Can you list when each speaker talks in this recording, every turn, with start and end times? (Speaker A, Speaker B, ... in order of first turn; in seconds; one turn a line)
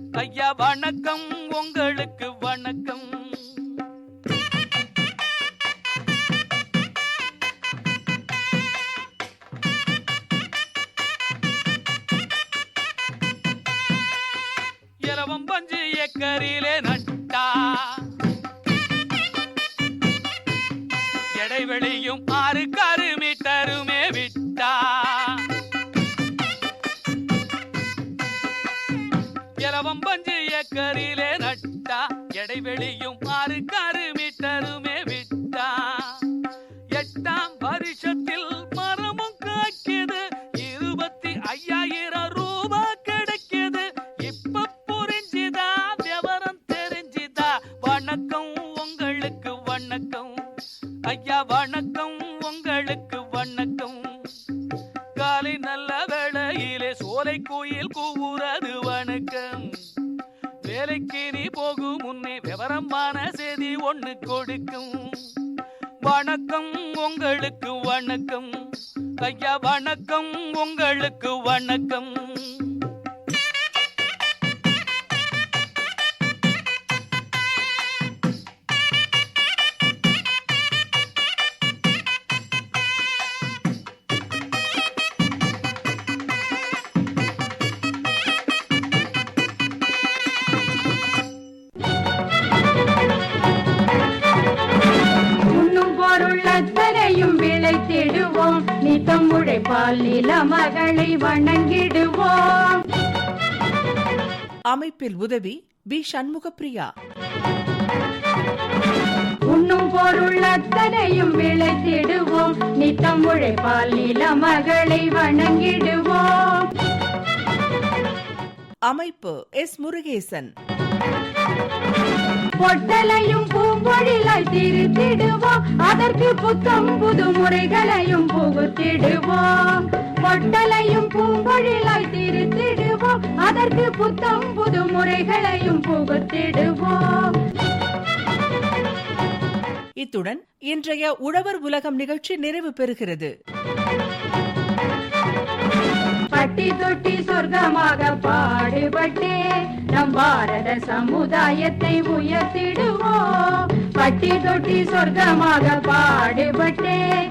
Speaker A: 0.2-3.7
Speaker A: 15.0-18.0
Speaker A: 21.4-25.4
Speaker A: 29.6-36.2
Speaker A: 36.9-50.4
Speaker A: 51.1-54.0
Speaker A: 55.2-59.7
Speaker A: 60.7-65.2
Speaker A: 66.1-68.5
Speaker A: 69.2-72.8
Speaker B: 95.5-102.9
Speaker C: 104.7-106.9
Speaker B: 109.5-116.7
Speaker C: 118.9-120.5
Speaker B: 122.6-137.4
Speaker C: 140.0-143.3
Speaker B: 146.3-149.4
Speaker B: 149.9-157.0